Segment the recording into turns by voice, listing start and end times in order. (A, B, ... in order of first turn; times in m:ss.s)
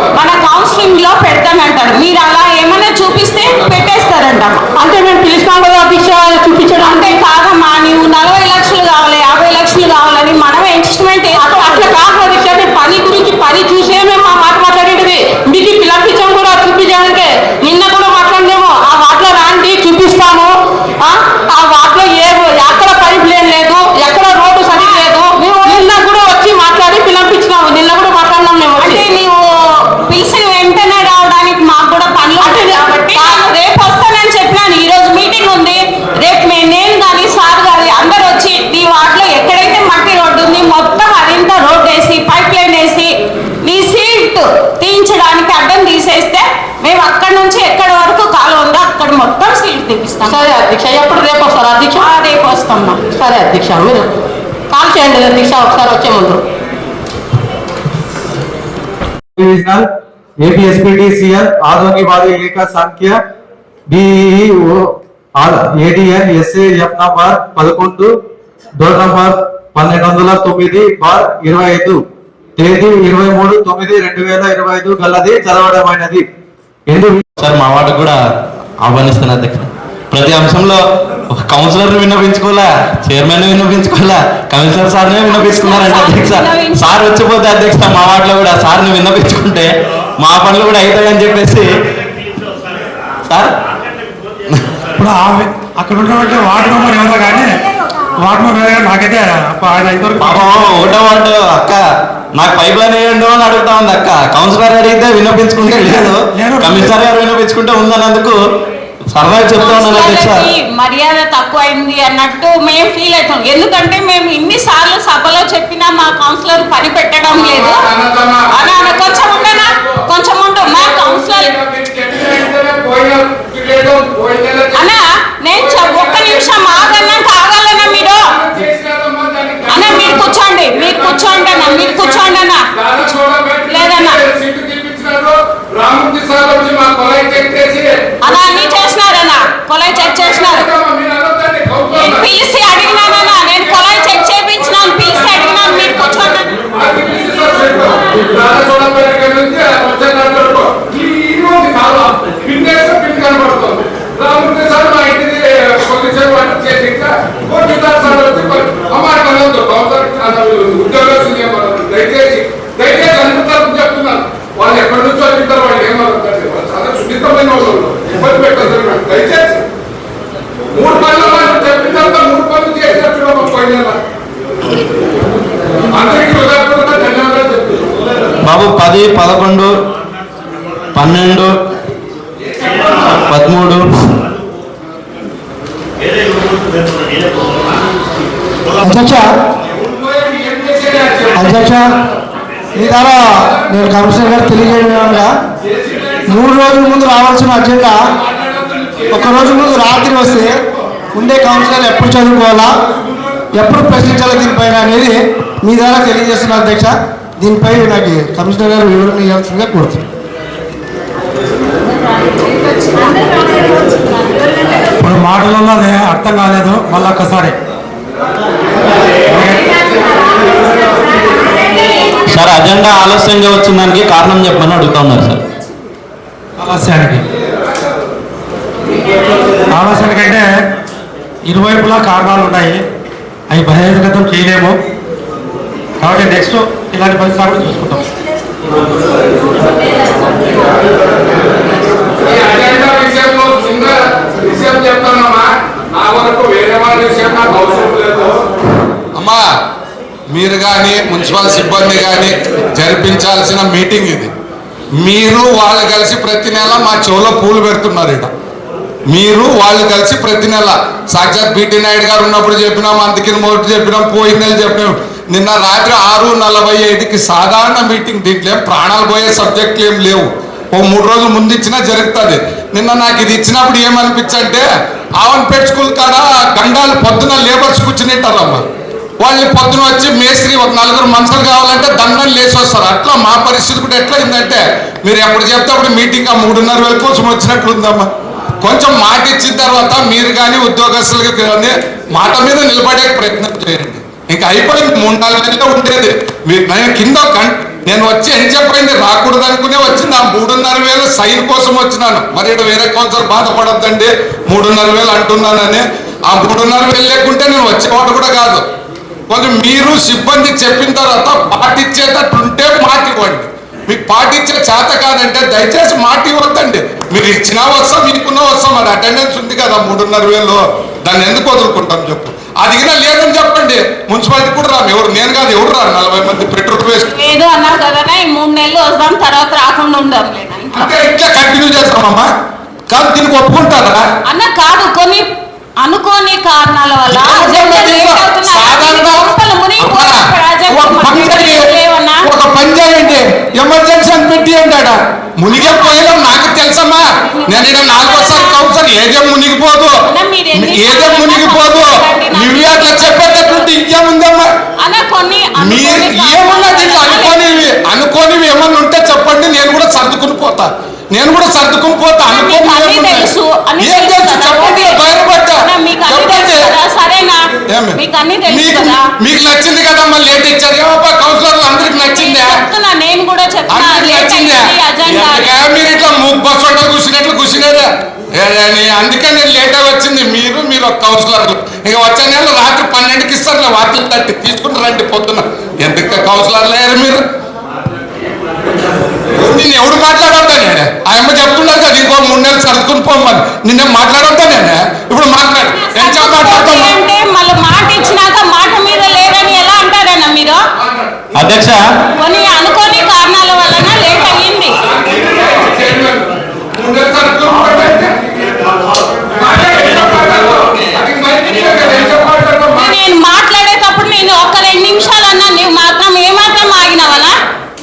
0:00.2-0:04.6 A
0:04.8-0:07.1 B
0:06.9-0:11.9 A
0:11.3-0:29.0 B
0:24.6-0:25.8 A
0:28.8-0:29.5 A
0:30.0-0:43.1 A
0:32.4-0:33.5 B
0:43.6-0:50.4 A
0:50.3-0:52.1 B
0:52.0-0:53.0 A
0:53.1-0:54.1 B
0:54.7-0:56.4 B
0:59.4-0:59.8 C
1:00.4-1:03.1 C
1:04.0-1:04.6 C
1:05.4-1:08.0 C
1:09.0-1:12.0 C
1:12.6-1:16.2 C
1:16.9-1:17.2 C
1:17.2-1:18.2 D
1:18.8-1:31.6 D
1:25.3-1:27.0 A
1:33.3-1:33.5 D
1:35.0-1:37.6 E
1:38.2-1:40.6 E
1:40.2-1:41.8 D
1:42.4-1:48.4 D
1:45.6-1:46.9 E
1:49.1-1:50.5 D
1:49.6-1:57.9 A
1:57.3-2:00.0 F
1:58.5-2:01.6 A
2:00.6-2:05.0 F
2:04.7-2:08.3 A
2:05.5-2:18.1 F
2:09.7-2:12.6 A
2:13.7-2:14.2 A
2:18.2-2:20.7 A
2:20.1-2:22.3 F
2:21.9-2:26.6 A
2:26.6-2:49.6 F
2:50.7-2:54.0 F
2:55.9-2:57.9 F
2:58.4-2:59.7 D
3:00.9-3:01.5 D
3:02.9-3:03.8 D
3:08.8-3:09.3 G
3:09.9-3:11.5 F
3:11.4-3:11.9 G
3:12.8-3:15.4 G
3:15.7-3:16.4 F
3:16.3-3:18.0 G
3:18.2-3:19.3 F
3:19.1-3:20.5 G
3:21.1-3:22.7 G
3:23.5-3:30.0 G
3:35.0-3:37.6 E
3:39.3-3:39.6 E
3:42.3-3:45.4 D
3:46.6-3:47.2 E
3:49.7-3:50.4 E
3:51.4-3:52.8 E
3:53.5-3:54.8 E
3:56.0-3:58.0 E
4:02.2-4:08.4 F
4:09.1-4:09.4 F
4:10.3-4:14.3 F
4:15.0-4:18.3 F
4:19.1-4:34.6 F
4:35.2-4:38.6 F
4:39.2-5:08.7 F
5:09.3-5:27.1 F
5:27.0-5:31.0 A
5:30.7-5:32.3 F
5:32.9-5:34.1 F
5:34.3-5:35.3 A
5:35.8-5:42.3 A
5:37.1-5:49.9 F
5:45.5-5:46.5 A
5:47.4-5:48.6 A
5:50.1-5:53.7 A
5:50.5-5:54.5 F
5:54.8-5:57.6 A
5:55.6-6:06.8 F
6:02.2-6:07.4 A
6:07.7-6:12.6 F
6:07.9-6:09.0 A
6:11.8-6:15.6 A
6:13.7-6:27.2 F
6:29.3-6:36.9 F
6:35.8-6:40.6 A
6:41.4-6:41.8 D
6:42.2-6:44.8 A
6:44.9-6:48.2 F
6:49.3-6:52.9 F
6:52.7-6:57.3 A